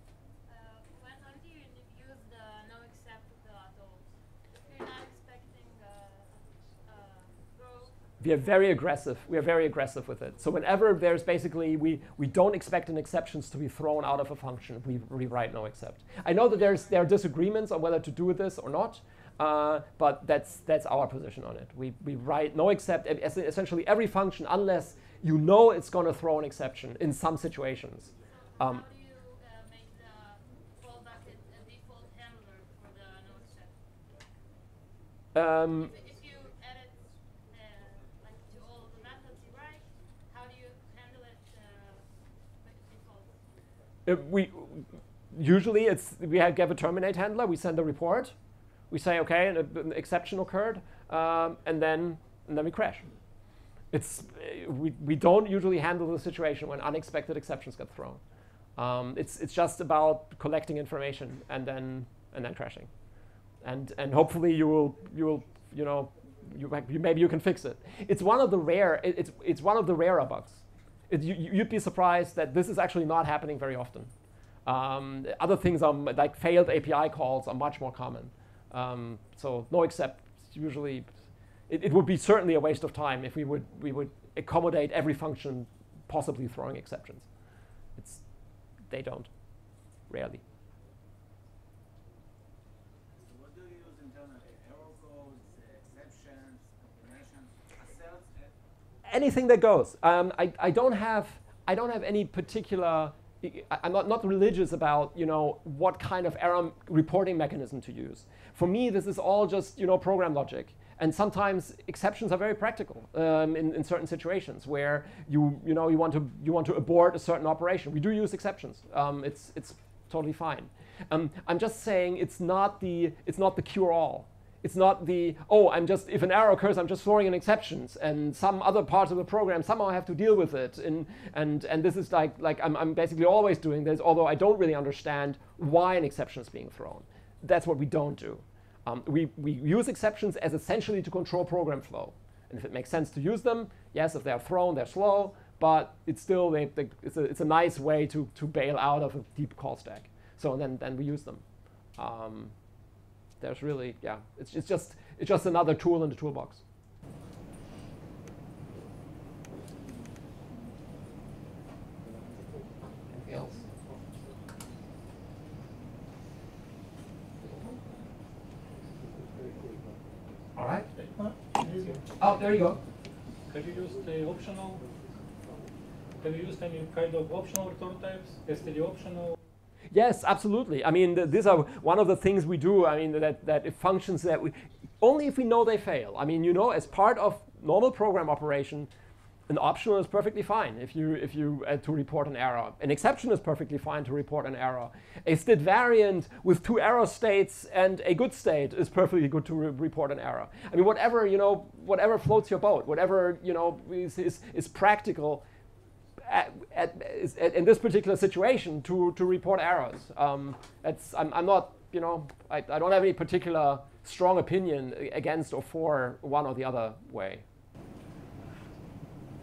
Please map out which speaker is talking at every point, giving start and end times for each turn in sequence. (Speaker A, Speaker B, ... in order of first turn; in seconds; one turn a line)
Speaker A: 0.5-8.6
Speaker B: 8.2-28.9
Speaker A: 28.2-33.8
Speaker B: 35.3-35.9
Speaker A: 35.7-42.1
Speaker A: 42.6-43.4
Speaker B: 44.1-48.3
Speaker B: 48.9-53.1
Speaker B: 53.9-58.2
Speaker B: 58.8-62.9
Speaker B: 63.6-74.1
Speaker B: 74.7-81.1
Speaker B: 81.7-87.3
Speaker B: 88.0-88.2
Speaker B: 88.9-89.3
Speaker B: 90.1-90.4
Speaker C: 93.1-98.5
Speaker B: 99.1-151.4
Speaker B: 152.0-152.5
Speaker B: 153.4-156.6
Speaker B: 163.1-163.6
Speaker B: 167.4-167.8
Speaker B: 170.6-170.9
Speaker D: 171.0-172.0
Speaker B: 172.2-172.8
Speaker D: 173.5-174.8
Speaker D: 176.2-179.3
Speaker B: 179.9-188.9
Speaker B: 189.5-205.4
Speaker B: 206.2-217.4